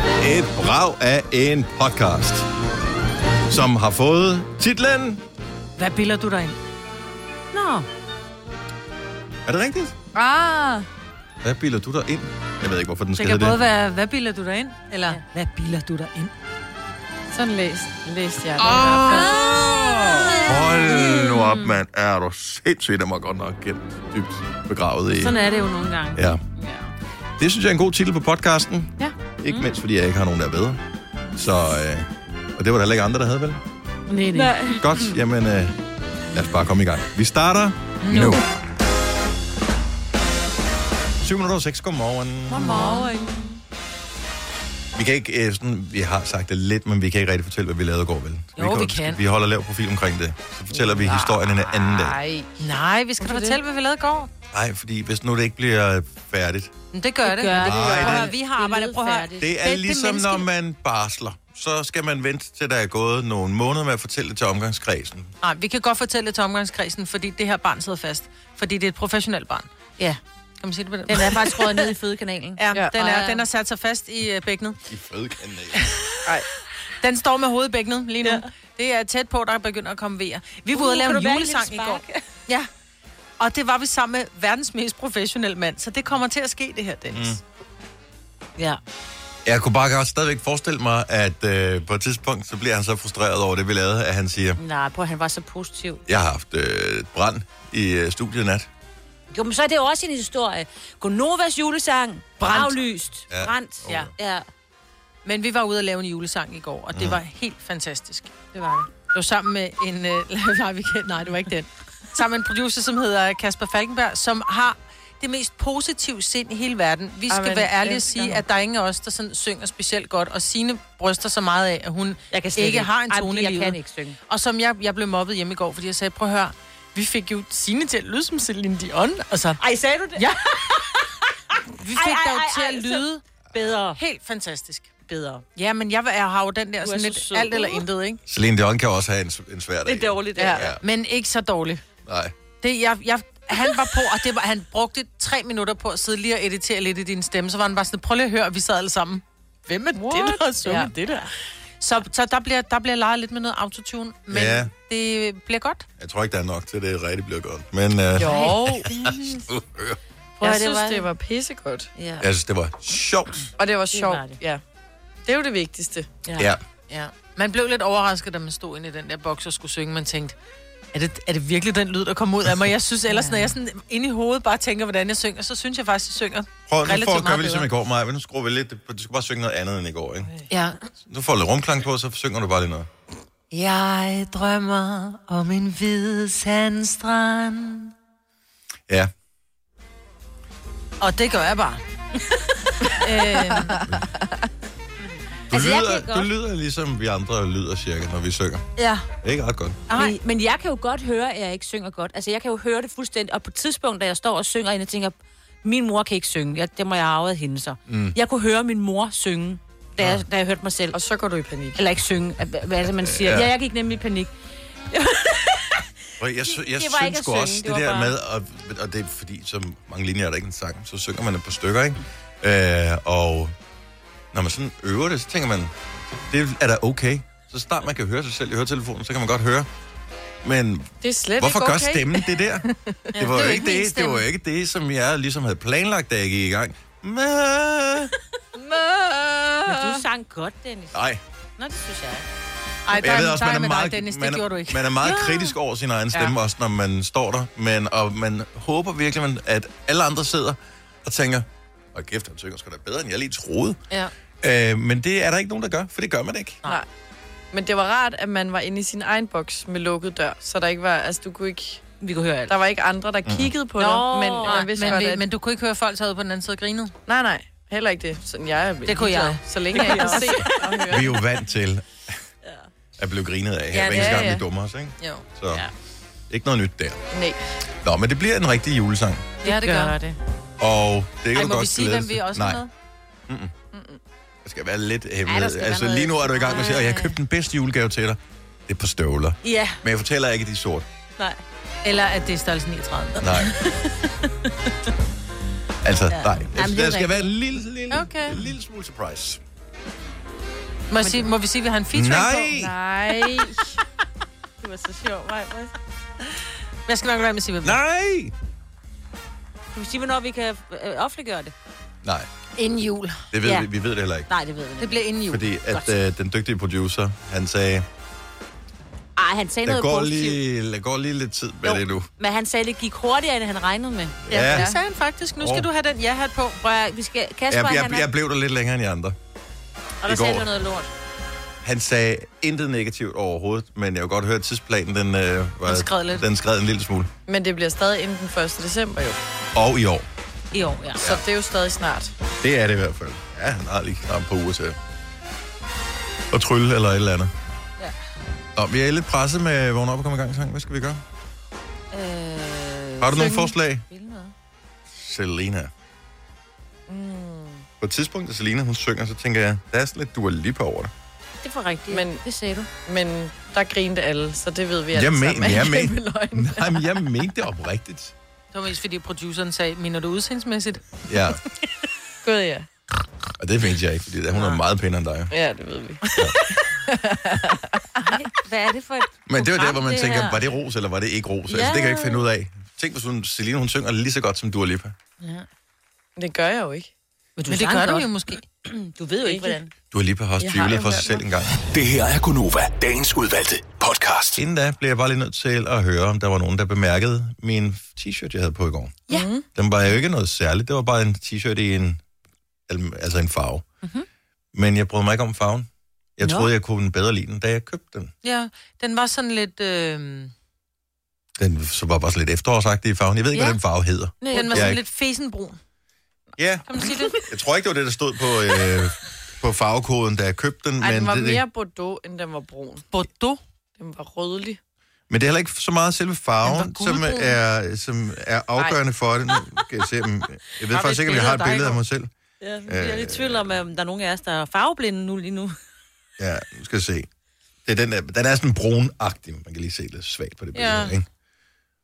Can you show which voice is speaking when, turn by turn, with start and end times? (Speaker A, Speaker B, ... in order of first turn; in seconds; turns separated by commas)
Speaker A: 0.2-2.5, Speaker A: 3.5-5.2, Speaker B: 5.8-6.6, Speaker C: 7.5-7.9, Speaker A: 9.4-9.9, Speaker D: 10.1-10.9, Speaker A: 11.4-13.6, Speaker B: 13.2-16.3, Speaker D: 17.3-20.3, Speaker A: 18.6-25.4, Speaker C: 19.1-21.5, Speaker C: 25.2-26.9, Speaker A: 26.1-26.4, Speaker A: 27.4-30.8, Speaker A: 31.4-33.6, Speaker B: 34.1-34.8, Speaker C: 34.1-35.1, Speaker A: 34.8-35.8, Speaker A: 36.3-38.4, Speaker B: 38.0-38.4, Speaker A: 41.2-42.9, Speaker C: 42.5-43.5, Speaker B: 42.6-43.2, Speaker D: 42.8-43.2, Speaker A: 44.9-52.2, Speaker B: 48.6-49.2, Speaker D: 50.7-52.5, Speaker B: 52.6-54.3, Speaker A: 54.5-56.7, Speaker B: 56.9-60.4, Speaker C: 57.2-59.6, Speaker A: 57.6-58.3, Speaker A: 59.4-65.3, Speaker B: 65.4-69.7, Speaker B: 70.6-71.9, Speaker C: 71.1-73.4, Speaker B: 72.6-74.8, Speaker A: 74.9-75.9, Speaker B: 77.0-82.7, Speaker C: 80.7-82.2, Speaker B: 83.4-87.4, Speaker A: 87.1-87.4, Speaker A: 89.4-94.6, Speaker C: 94.6-96.0, Speaker A: 96.1-98.7, Speaker C: 99.3-104.4, Speaker A: 102.4-104.1, Speaker B: 105.2-129.6, Speaker A: 106.9-107.2, Speaker D: 117.3-118.4, Speaker C: 122.3-124.2, Speaker C: 129.6-131.1, Speaker B: 131.7-133.2, Speaker C: 131.9-134.0, Speaker B: 133.9-135.0, Speaker C: 135.1-135.4, Speaker B: 135.5-138.2, Speaker C: 136.8-137.8, Speaker A: 138.2-140.8, Speaker C: 139.8-140.8, Speaker D: 140.4-140.7, Speaker B: 140.8-141.8, Speaker A: 142.1-142.3, Speaker B: 142.6-151.3, Speaker D: 149.9-150.9, Speaker B: 151.8-155.9, Speaker A: 154.3-154.7, Speaker A: 156.0-160.0, Speaker D: 158.2-158.9, Speaker C: 158.2-159.2, Speaker C: 160.4-161.1, Speaker D: 160.4-161.9, Speaker C: 161.9-162.3, Speaker A: 162.2-163.5, Speaker D: 163.6-164.6, Speaker C: 163.9-164.4, Speaker D: 165.2-166.1, Speaker C: 166.3-167.1, Speaker A: 166.3-166.6, Speaker B: 167.3-170.3, Speaker B: 170.9-177.7, Speaker C: 173.1-173.5, Speaker A: 176.7-180.3, Speaker A: 181.0-182.9, Speaker B: 183.5-187.9, Speaker B: 191.0-191.8, Speaker D: 193.0-194.3, Speaker B: 193.0-193.7, Speaker C: 195.5-196.3, Speaker A: 195.5-198.7, Speaker C: 198.8-199.0, Speaker A: 199.2-199.8, Speaker B: 199.9-200.2, Speaker C: 199.9-211.0, Speaker A: 207.9-208.2, Speaker A: 210.0-210.2, Speaker D: 210.9-211.8, Speaker C: 211.8-214.3, Speaker A: 213.0-213.5, Speaker C: 214.9-215.9, Speaker A: 216.2-223.5, Speaker C: 216.4-218.1, Speaker A: 224.3-225.7, Speaker A: 226.3-229.7, Speaker A: 230.4-238.1, Speaker D: 231.0-232.3, Speaker D: 232.9-233.2, Speaker B: 233.2-234.2, Speaker D: 238.6-240.0, Speaker C: 239.6-241.0, Speaker A: 240.9-241.2, Speaker C: 241.6-242.2, Speaker B: 242.8-245.1, Speaker A: 242.9-253.8, Speaker C: 245.1-245.5, Speaker A: 254.4-256.6, Speaker D: 257.5-261.8, Speaker C: 262.0-262.6, Speaker D: 262.5-265.2, Speaker A: 263.2-263.5, Speaker C: 263.8-265.1, Speaker B: 264.4-266.9, Speaker D: 267.1-271.1, Speaker C: 268.8-270.9, Speaker A: 270.9-272.1, Speaker A: 273.0-275.6, Speaker B: 273.7-274.1, Speaker D: 273.8-274.4, Speaker A: 276.3-277.0, Speaker D: 277.1-277.4, Speaker A: 277.8-279.3, Speaker C: 279.4-280.2, Speaker B: 279.4-280.0, Speaker A: 280.6-282.6, Speaker B: 281.3-282.7, Speaker A: 283.3-283.5, Speaker D: 283.7-284.0, Speaker A: 284.4-290.9, Speaker C: 285.2-287.1, Speaker C: 289.4-289.8, Speaker B: 291.8-293.6, Speaker A: 293.2-293.6, Speaker C: 294.3-294.7, Speaker A: 295.8-299.4, Speaker C: 296.1-297.3, Speaker B: 297.9-298.5, Speaker B: 300.9-302.5, Speaker C: 301.0-301.3, Speaker A: 301.9-302.8, Speaker D: 302.5-303.8, Speaker C: 304.6-305.7, Speaker B: 306.9-307.8, Speaker A: 307.6-308.3, Speaker C: 309.7-311.5, Speaker B: 312.6-313.3, Speaker A: 313.3-314.3, Speaker C: 313.4-313.7, Speaker C: 314.3-315.1, Speaker B: 314.8-315.5, Speaker A: 315.3-317.9, Speaker C: 315.7-315.9, Speaker C: 319.1-320.4, Speaker A: 319.6-322.1, Speaker C: 321.6-324.4, Speaker A: 324.2-324.7, Speaker B: 324.5-326.6, Speaker D: 324.5-324.8, Speaker A: 325.4-325.7, Speaker C: 326.6-328.1, Speaker A: 327.5-329.1, Speaker C: 330.0-330.9, Speaker A: 330.1-330.5, Speaker A: 331.6-337.1, Speaker C: 335.7-336.2, Speaker D: 337.3-339.2, Speaker A: 339.5-340.1, Speaker C: 340.5-341.0, Speaker D: 341.0-342.1, Speaker A: 341.0-341.2, Speaker A: 342.4-344.8, Speaker A: 346.3-347.3, Speaker A: 348.6-351.0, Speaker C: 351.9-354.3, Speaker A: 353.0-353.8, Speaker A: 354.9-355.7, Speaker D: 356.9-357.6, Speaker A: 357.8-360.9, Speaker C: 361.4-362.7, Speaker D: 361.9-362.2, Speaker D: 362.9-367.0, Speaker A: 364.9-368.1, Speaker B: 368.5-370.8, Speaker A: 371.1-371.4, Speaker D: 372.2-372.7, Speaker A: 373.4-375.4, Speaker D: 375.3-378.1, Speaker C: 378.0-380.4, Speaker A: 379.3-384.9, Speaker C: 381.5-382.3, Speaker D: 386.2-386.9, Speaker C: 387.4-389.7, Speaker B: 387.5-388.4, Speaker D: 389.2-389.6, Speaker A: 389.9-391.6, Speaker D: 390.4-391.2, Speaker E: 391.6-394.4, Speaker A: 394.4-402.0, Speaker D: 399.1-399.4, Speaker A: 402.7-403.6, Speaker A: 404.5-408.1, Speaker C: 406.2-406.5, Speaker B: 408.2-410.3, Speaker A: 411.4-414.8, Speaker C: 413.3-413.6, Speaker C: 414.2-414.7, Speaker B: 414.3-415.6, Speaker A: 416.4-416.6, Speaker B: 416.7-417.1, Speaker A: 417.3-421.4, Speaker D: 420.8-422.8, Speaker B: 422.9-423.4, Speaker D: 423.8-424.6, Speaker A: 425.1-432.1, Speaker B: 426.4-427.4, Speaker C: 430.6-431.8, Speaker C: 432.4-435.5, Speaker A: 432.6-433.5, Speaker A: 436.2-437.1, Speaker A: 437.6-441.0, Speaker C: 440.6-440.9